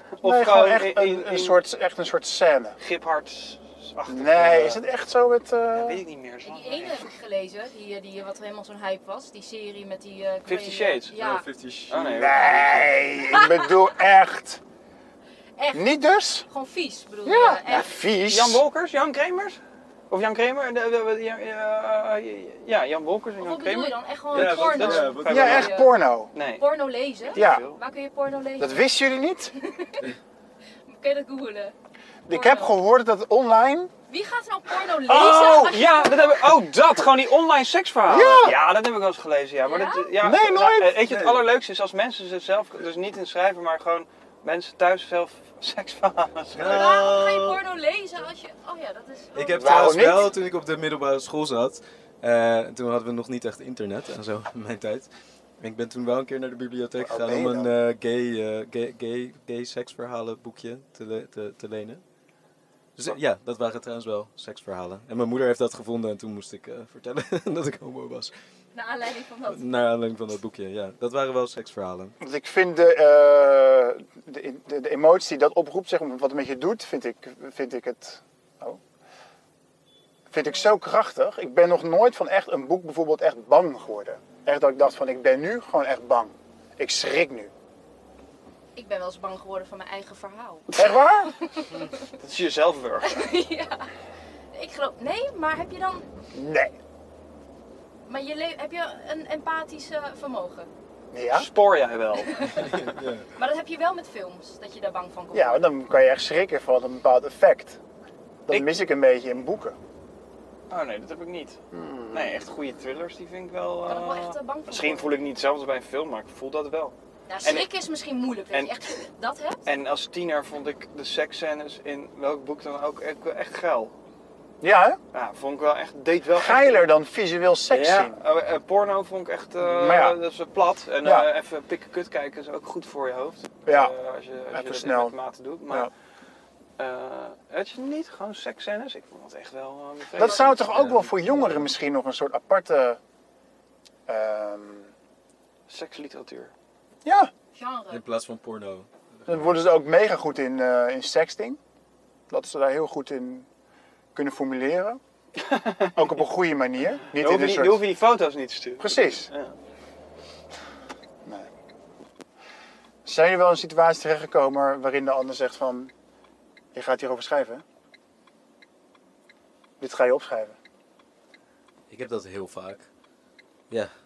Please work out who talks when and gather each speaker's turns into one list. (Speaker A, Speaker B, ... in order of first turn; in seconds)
Speaker A: 0.2-1.6, 2.8-4.8, 5.7-7.1, 10.5-11.2, 11.9-12.4, 18.3-19.6, 20.1-25.6, 26.3-26.6, 27.2-27.8, 34.9-46.9, 92.2-93.2, 101.3-102.5, 108.5-108.7, 110.7-111.6, 112.1-117.7, 119.7-124.0, 125.1-126.9, 127.7-135.9, 136.8-140.7, 145.7-146.5, 155.4-156.0, 157.2-159.6
Speaker B: 0.2-2.8, 4.1-6.0, 12.0-14.6, 15.7-16.5, 17.2-18.6, 25.2-26.3, 27.4-27.7, 28.6-29.5, 32.3-33.9, 35.1-35.8, 38.1-38.6, 40.2-41.0, 49.6-50.3, 57.0-57.7, 72.2-78.8, 80.3-87.5, 90.7-91.3, 96.3-96.8, 101.1-101.5, 105.3-107.8, 108.5-109.8, 111.7-112.4, 124.6-125.0, 126.3-128.2, 129.6-130.2, 131.0-131.3, 133.7-133.9, 134.5-135.2, 140.2-143.0, 144.1-144.9, 147.0-147.3, 149.3-151.6, 152.3-153.5, 154.2-155.0, 155.9-157.9, 158.8-159.3, 163.1-165.9, 166.7-167.6, 169.8-170.6
Speaker C: 6.4-11.5, 15.6-17.9, 23.4-28.9, 29.6-30.1, 30.9-31.7, 32.3-32.8, 34.1-36.6, 39.6-40.1, 46.6-50.0, 68.7-69.6, 88.8-92.0, 93.0-93.9, 94.5-96.1, 98.0-100.7, 102.2-102.6, 103.3-105.7, 113.9-115.2, 117.3-119.6, 147.5-148.0
Speaker D: 11.2-13.1, 24.3-25.8, 41.0-41.5, 46.5-47.6, 49.4-55.1, 55.6-62.0, 63.0-68.3, 69.5-72.2, 102.4-103.3, 140.4-141.7, 147.9-149.5, 171.9-172.9